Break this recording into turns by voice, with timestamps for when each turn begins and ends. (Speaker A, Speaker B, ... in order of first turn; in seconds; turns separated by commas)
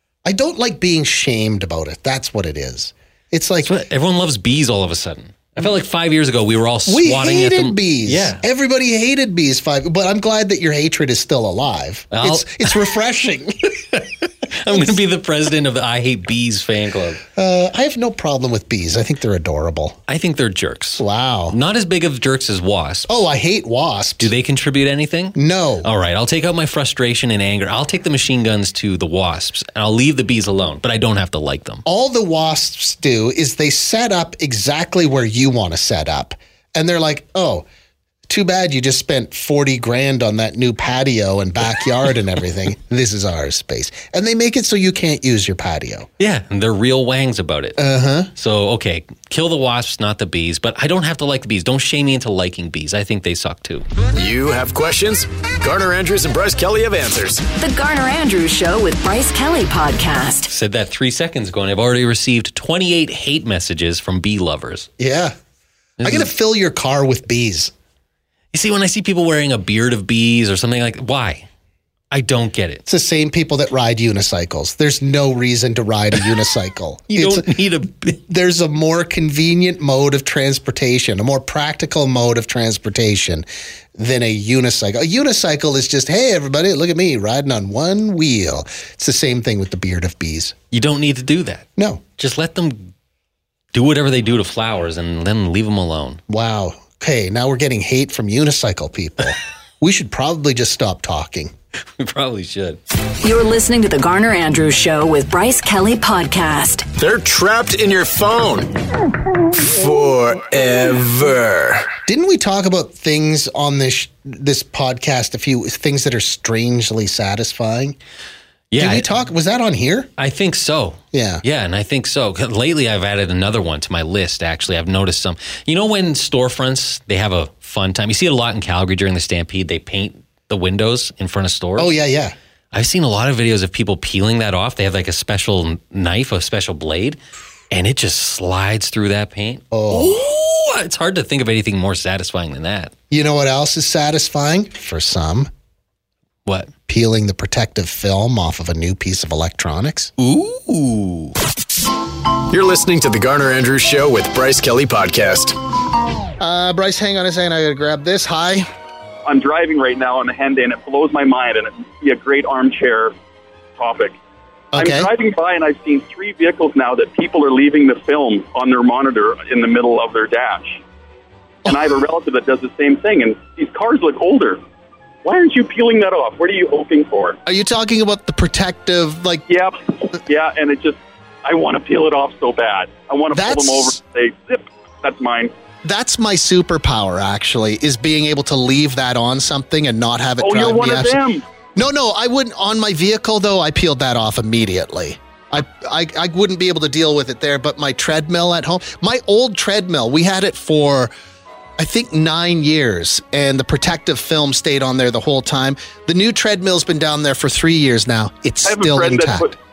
Speaker A: 0.2-3.8, Speaker B: 3.6-8.4, Speaker A: 6.9-13.8, Speaker B: 12.1-12.7, Speaker B: 13.9-17.2, Speaker A: 17.4-20.0, Speaker B: 20.1-23.1, Speaker A: 21.0-21.6, Speaker A: 23.1-24.3, Speaker B: 24.2-31.8, Speaker A: 25.4-25.9, Speaker A: 31.9-37.7, Speaker A: 38.3-46.1, Speaker B: 46.2-47.8, Speaker A: 47.8-48.3, Speaker B: 48.4-53.9, Speaker C: 54.1-57.5, Speaker D: 57.6-60.5, Speaker B: 60.5-64.9, Speaker A: 65.0-65.4, Speaker B: 66.0-66.3, Speaker A: 66.0-67.7, Speaker B: 68.5-71.5, Speaker B: 72.1-72.8, Speaker A: 72.9-77.5, Speaker B: 77.1-78.2, Speaker A: 78.3-90.5, Speaker B: 90.7-91.7, Speaker A: 91.8-92.0, Speaker B: 92.2-92.9, Speaker B: 93.7-96.2, Speaker A: 96.3-101.5, Speaker B: 102.0-102.8, Speaker D: 103.2-106.9, Speaker C: 107.0-108.7, Speaker C: 109.6-111.9, Speaker A: 112.1-118.0, Speaker B: 118.7-119.1, Speaker A: 118.8-120.1, Speaker B: 120.2-131.9, Speaker A: 121.1-121.4, Speaker A: 131.8-132.3, Speaker B: 132.7-137.2, Speaker B: 137.7-142.9, Speaker A: 139.7-140.2, Speaker A: 143.1-145.5, Speaker B: 146.5-146.7, Speaker A: 146.9-150.1, Speaker B: 150.2-151.3, Speaker C: 152.5-155.6, Speaker A: 156.4-158.7, Speaker E: 159.3-163.1, Speaker E: 163.8-164.2, Speaker A: 164.7-165.1, Speaker E: 164.8-170.8, Speaker E: 171.7-174.6, Speaker E: 175.2-177.4, Speaker A: 177.5-179.4, Speaker E: 179.5-185.5, Speaker A: 183.3-184.0, Speaker A: 185.8-191.2, Speaker E: 190.4-191.4, Speaker A: 191.8-201.1, Speaker A: 201.8-209.5, Speaker E: 208.7-209.6